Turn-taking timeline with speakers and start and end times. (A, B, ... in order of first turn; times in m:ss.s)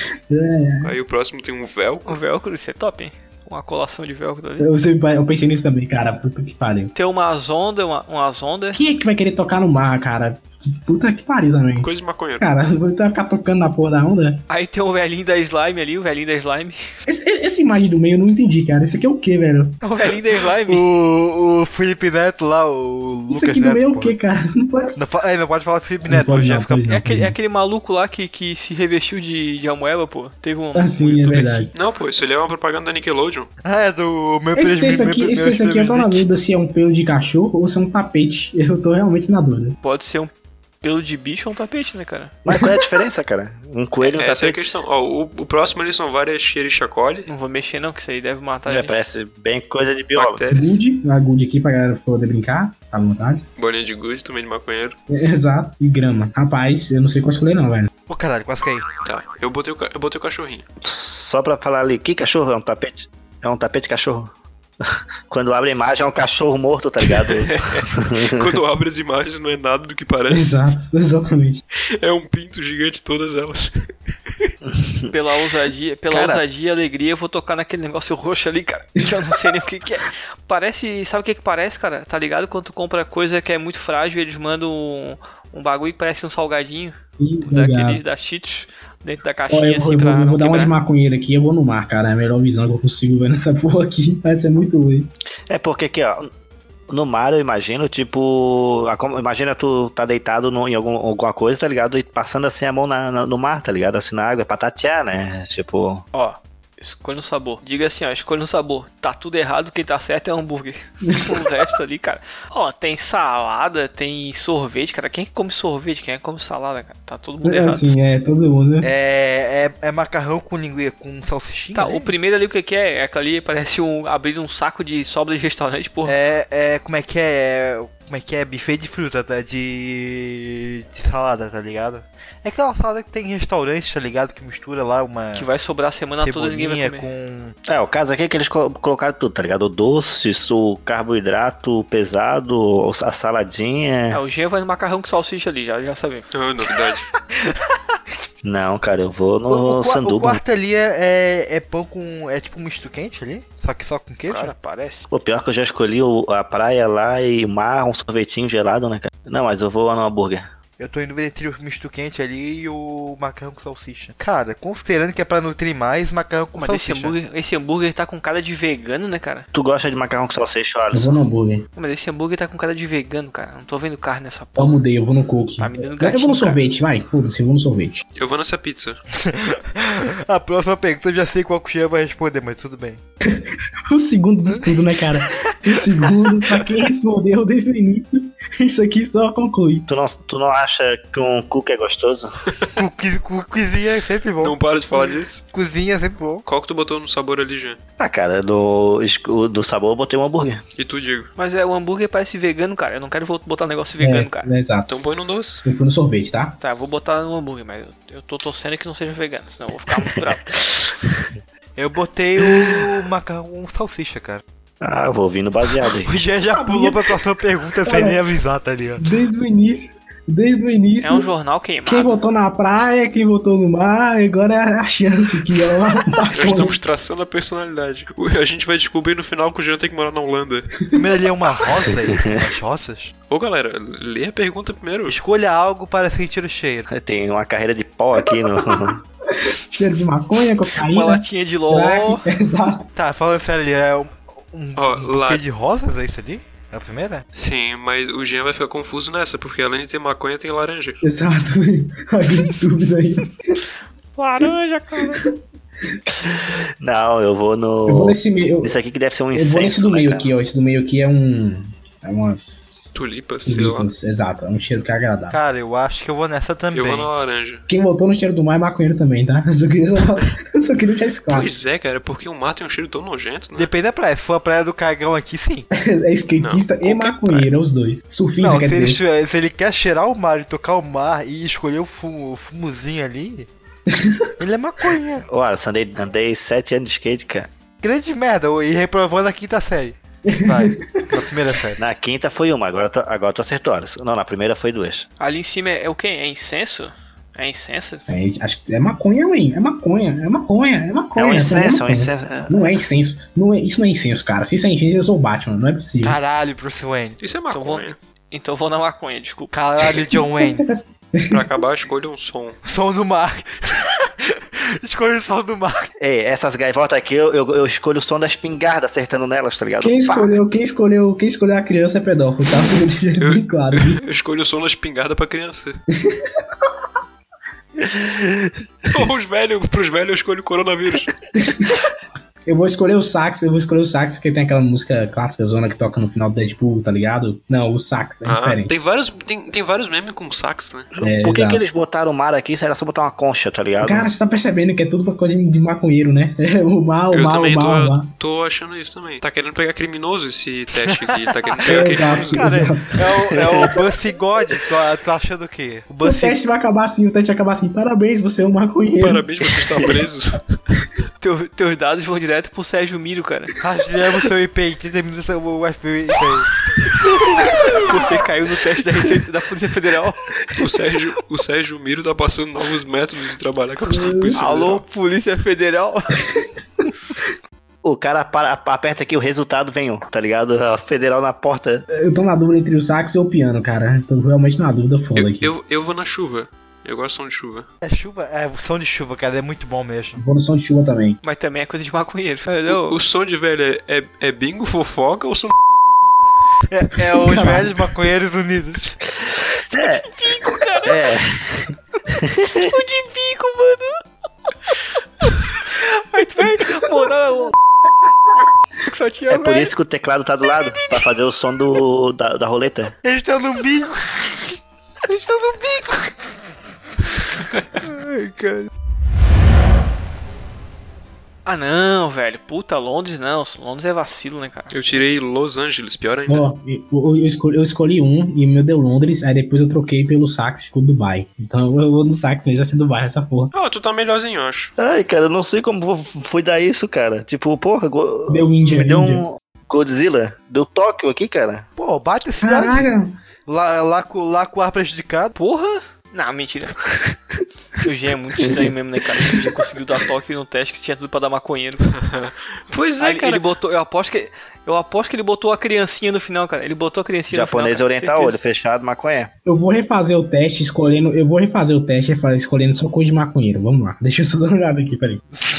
0:00.3-0:00.9 A
0:00.8-0:02.2 B
0:02.0-0:04.7 C
0:04.6-0:06.9 A
0:06.9-0:08.8 C
0:08.7-0:11.9 A
0:11.8-0:12.4 B
0:12.4-0:14.4 A
0:14.5-0:16.8 C
0:17.1-0:19.8 A
0:19.8-0:20.8 C
0:20.6-0:24.2 D
0:23.3-0:25.0 A
0:25.0-0:26.8 D
0:26.0-0:27.3 A
0:26.9-0:31.7 C
0:30.7-0:31.7 A
0:31.7-0:33.5 B
0:33.6-0:36.3 D
0:34.5-0:39.8 A
0:39.8-0:42.4 C
0:42.4-0:44.8 E
0:44.0-0:47.3 B
0:47.3-0:49.0 C
0:48.7-0:50.4 E
0:50.1-0:50.8 B
0:50.5-0:53.4 A
0:53.6-0:55.0 B
0:55.1-0:57.9 A
0:58.1-0:58.9 D
0:59.0-1:00.6 B
1:00.8-1:08.6 E
1:07.1-1:10.5 B
1:10.3-1:11.6 A
1:12.0-1:13.7 B
1:15.1-1:30.7 C
1:16.1-1:16.4 E
1:27.2-1:28.0 A
1:29.5-1:35.1 A
1:35.5-1:36.3 E
1:36.9-1:46.0 E
1:46.1-1:57.9 C
1:51.1-1:51.4 A
1:57.4-1:58.9 A
1:58.8-2:02.1 D
2:01.7-2:06.1 C
2:06.0-2:15.5 D
2:15.3-2:17.1 C
2:16.2-2:17.5 D
2:17.7-2:24.2 E
2:24.1-2:26.3 C
2:26.3-2:27.1 B
2:28.4-2:30.4 E
2:29.5-2:34.5 D
2:34.3-2:35.1 C
2:35.1-2:40.4 E
2:40.8-2:47.1 D
2:46.5-2:49.4 C
2:49.5-2:51.2 E
2:50.9-2:51.7 A
2:51.8-2:54.8 C
2:54.6-2:58.0 A
2:55.6-2:56.6 C
2:58.2-2:59.0 B
2:59.2-3:03.0 D
3:03.3-3:09.8 A
3:09.9-3:12.3 E
3:12.8-3:14.6 D
3:14.4-3:15.4 B
3:15.5-3:16.4 D
3:16.4-3:17.8 B
3:18.0-3:20.6 E
3:20.8-3:21.3 B
3:21.4-3:24.5 C
3:24.0-3:25.0 A
3:24.9-3:25.6 B
3:25.6-3:26.6 A
3:26.6-3:30.5 C
3:30.6-3:30.9 E
3:31.8-3:34.4 D
3:32.4-3:32.8 E
3:34.8-3:36.2 E
3:36.0-3:39.0 D
3:36.4-3:37.1 A
3:37.8-3:38.2 A
3:39.0-3:41.3 A
3:41.0-3:42.2 C
3:41.8-3:46.8 A
3:46.3-3:50.7 B
3:50.9-3:53.1 D
3:52.1-3:52.4 E
3:53.3-3:55.2 B
3:55.1-3:56.9 D
3:56.9-3:59.0 E
3:59.4-4:02.9 A
4:00.7-4:02.2 C
4:03.0-4:07.2 D
4:04.8-4:05.4 B
4:07.3-4:11.0 B
4:11.0-4:13.6 A
4:14.2-4:15.2 C
4:16.2-4:20.3 E
4:17.8-4:18.7 A
4:19.3-4:25.4 A
4:22.9-4:23.9 B
4:25.3-4:27.1 D
4:26.7-4:27.6 B
4:27.7-4:31.5 A
4:31.3-4:33.7 B
4:33.6-4:35.7 D
4:35.7-4:39.0 A
4:36.4-4:37.5 B
4:38.4-4:43.5 D
4:43.9-4:44.3 A
4:44.4-4:45.2 D
4:45.3-4:47.5 E
4:47.8-4:51.8 D
4:50.3-4:51.2 A
4:51.7-4:55.1 E
4:55.2-4:58.0 C
4:58.1-5:06.2 A
5:01.1-5:02.8 E
5:06.0-5:07.2 D
5:07.2-5:08.0 B
5:07.5-5:09.5 C
5:09.5-5:10.6 D
5:10.4-5:11.4 A
5:11.3-5:12.6 B
5:12.6-5:15.9 D
5:16.0-5:20.4 E
5:19.8-5:24.0 A
5:23.2-5:25.8 B
5:26.0-5:26.3 A
5:27.8-5:28.5 E
5:28.9-5:31.1 B
5:31.3-5:31.8 A
5:32.4-5:38.7 A
5:38.2-5:40.9 B
5:40.9-5:44.1 E
5:41.0-5:41.6 A
5:43.8-5:48.1 A
5:47.1-5:52.5 B
5:51.6-5:56.4 D
5:51.7-5:53.0 A
5:53.3-5:53.8 E
5:56.0-5:59.3 A
5:59.0-6:00.6 B
6:01.2-6:03.5 C
6:03.6-6:06.5 D
6:07.4-6:10.2 C
6:10.5-6:14.8 B
6:13.9-6:14.4 A
6:14.4-6:16.2 C
6:17.8-6:21.8 E
6:21.9-6:25.5 A
6:25.1-6:27.6 B
6:27.8-6:30.2 D
6:30.2-6:31.2 A
6:31.2-6:33.0 C
6:32.7-6:35.5 B
6:36.7-6:39.0 D
6:37.2-6:37.7 A
6:39.3-6:40.0 E
6:39.8-6:41.0 C
6:40.8-6:42.7 E
6:42.2-6:44.0 C
6:45.2-6:47.5 C
6:48.8-6:49.7 C
6:49.3-6:53.0 E
6:50.6-6:51.0 C
6:53.0-6:56.3 D
6:57.8-6:58.7 D
7:01.4-7:04.8 C
7:04.7-7:06.5 B
7:06.3-7:13.5 A
7:13.5-7:14.7 B
7:14.8-7:21.7 E
7:18.3-7:19.2 A
7:21.8-7:22.9 D
7:22.4-7:23.2 A
7:23.4-7:25.3 D
7:25.3-7:26.8 C
7:27.8-7:31.9 C
7:32.0-7:33.4 B
7:33.0-7:38.4 C
7:37.3-7:39.3 E
7:39.4-7:45.2 A